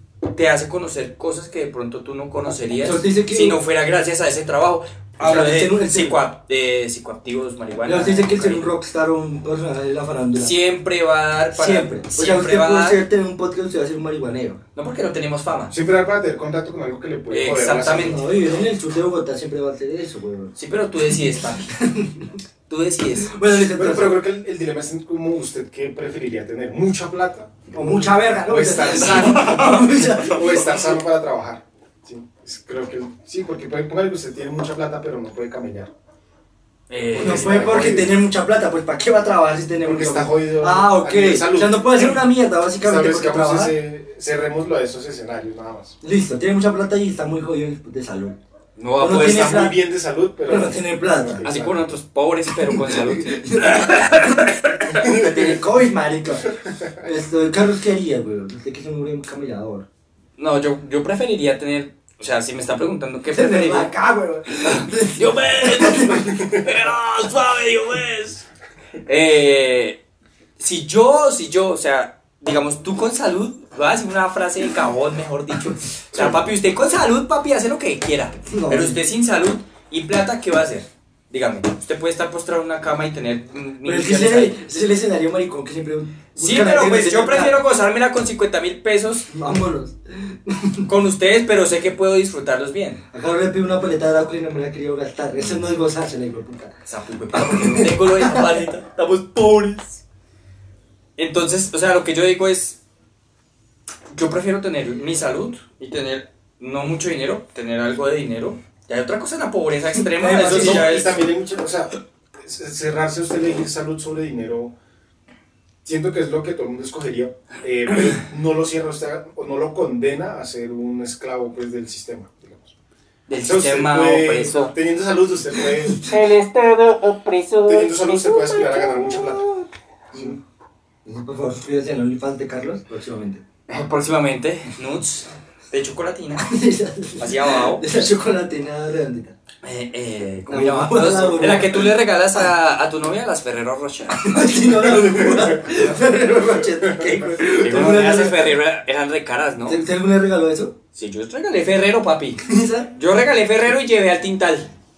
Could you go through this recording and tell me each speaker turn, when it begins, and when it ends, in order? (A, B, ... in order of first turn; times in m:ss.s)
0:00.3-0:08.7 A
0:02.7-0:03.6 B
0:05.2-0:06.2 B
0:07.8-0:10.6 B
0:10.3-0:13.0 A
0:11.5-0:14.6 B
0:14.7-0:15.7 A
0:15.7-0:18.2 C
0:17.3-0:18.2 A
0:17.9-0:20.5 B
0:20.6-0:21.8 A
0:21.5-0:22.4 B
0:22.7-0:23.4 A
0:23.3-0:24.2 B
0:23.6-0:35.9 C
0:27.7-0:30.8 B
0:28.8-0:30.9 A
0:36.9-0:38.0 A
0:37.1-0:38.2 C
0:37.2-0:43.8 B
0:39.8-0:42.3 C
0:42.8-0:45.9 C
0:46.0-0:48.4 B
0:48.8-0:49.7 A
0:49.0-0:49.8 B
0:49.2-0:51.9 C
0:50.4-0:51.5 B
0:51.4-0:55.6 A
0:52.6-0:59.9 B
1:00.4-1:03.9 A
1:03.3-1:06.5 B
1:04.6-1:08.4 A
1:09.0-1:10.0 A
1:10.6-1:24.7 A
1:16.1-1:16.4 C
1:18.5-1:19.0 B
1:23.8-1:27.6 B
1:26.4-1:29.3 A
1:29.3-1:30.9 B
1:30.8-1:33.0 A
1:33.1-1:36.7 B
1:35.4-1:35.6 A
1:36.8-1:40.0 A
1:37.3-1:38.4 B
1:41.2-1:42.8 A
1:44.1-1:51.2 A
1:50.0-1:51.1 B
1:50.4-1:54.7 C
1:55.8-2:02.7 C
2:03.3-2:04.7 A
2:03.4-2:06.1 C
2:06.0-2:08.1 A
2:07.6-2:09.5 C
2:08.2-2:09.6 B
2:10.1-2:10.4 C
2:11.0-2:13.4 B
2:13.7-2:16.5 A
2:16.4-2:19.3 B
2:17.2-2:17.9 A
2:19.6-2:25.1 A
2:20.5-2:21.9 B
2:24.2-2:28.5 B
2:24.8-2:26.0 C
2:26.8-2:27.1 C
2:27.6-2:29.8 A
2:29.6-2:30.7 B
2:30.9-2:34.7 A
2:32.4-2:32.9 B